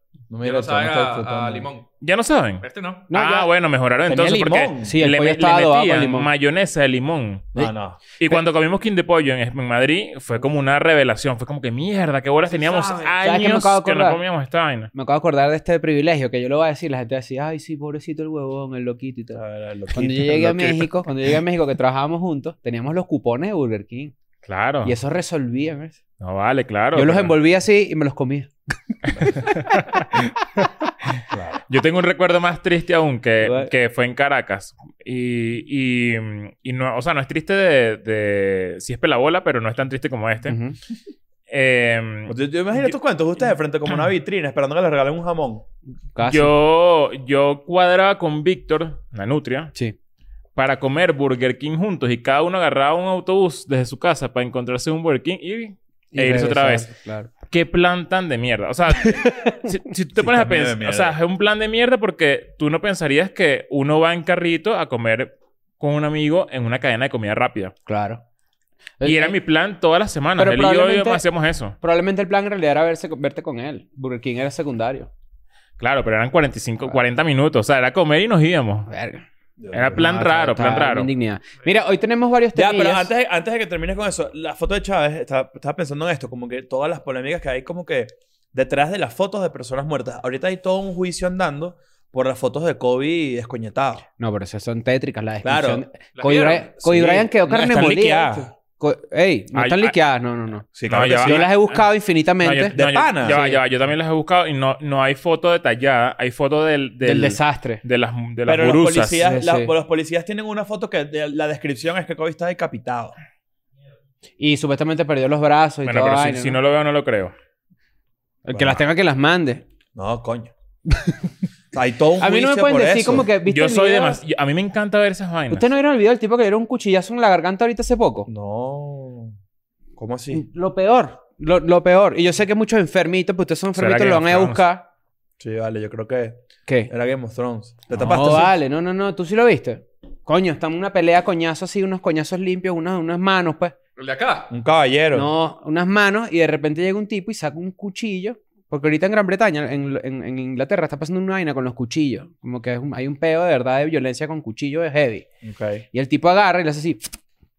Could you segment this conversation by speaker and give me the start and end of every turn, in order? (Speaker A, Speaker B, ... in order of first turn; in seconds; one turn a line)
Speaker A: 0.3-1.7
Speaker B: 0.4-1.9
Speaker C: 2.0-7.5
Speaker B: 2.6-3.1
Speaker D: 3.1-3.5
Speaker A: 4.1-4.9
Speaker D: 4.8-6.3
Speaker A: 7.5-8.0
Speaker C: 8.2-14.9
Speaker A: 12.5-13.2
Speaker D: 13.2-14.2
Speaker D: 14.9-19.4
Speaker A: 19.4-20.9
Speaker D: 19.9-24.1
Speaker C: 24.4-24.9
Speaker D: 24.8-26.0
Speaker C: 26.2-27.4
Speaker D: 26.9-28.5
Speaker C: 29.3-30.7
Speaker A: 31.3-31.6
Speaker C: 31.7-40.6
Speaker D: 33.4-33.7
Speaker D: 40.5-40.8
Speaker C: 41.5-42.4
Speaker A: 42.3-45.6
Speaker D: 46.1-46.5
Speaker C: 46.2-49.7
Speaker C: 50.6-56.9
Speaker D: 56.1-57.3
Speaker C: 57.5-67.7
Speaker D: 59.0-59.5
Speaker A: 60.2-61.2
Speaker D: 67.9-68.2
Speaker D: 69.0-69.3
Speaker C: 69.0-71.8
Speaker D: 70.4-71.2
Speaker D: 71.8-75.1
Speaker C: 75.8-78.9
Speaker D: 78.9-79.2
Speaker A: 79.6-80.0
Speaker C: 79.7-81.1
Speaker D: 80.0-83.1
Speaker A: 82.5-94.0
Speaker D: 94.2-100.7
Speaker A: 95.4-98.5
Speaker B: 96.2-96.6
Speaker C: 99.5-100.0
Speaker A: 100.8-101.5
Speaker C: 100.9-101.8
Speaker D: 101.2-103.6
Speaker C: 102.4-109.3
Speaker A: 102.7-103.4
Speaker D: 107.0-107.8
Speaker A: 108.5-113.2
Speaker D: 109.2-109.7
Speaker D: 114.4-116.6
Speaker C: 115.8-117.3
Speaker D: 118.5-119.6
Speaker A: 118.5-118.8
Speaker A: 120.0-120.5
Speaker D: 120.9-121.2
Speaker A: 121.7-123.3
Speaker D: 122.2-124.2
Speaker C: 123.5-125.7
Speaker D: 125.5-128.3
Speaker A: 128.3-129.3
Speaker A: 130.0-130.4
Speaker D: 130.3-134.8
Speaker C: 133.8-134.6
Speaker A: 135.4-136.4
Speaker A: 136.9-138.5
Speaker D: 138.0-143.7
Speaker B: 144.0-144.5
Speaker A: 144.5-145.3
Speaker D: 145.1-155.3
Speaker A: 155.4-155.8
Speaker D: 155.9-157.1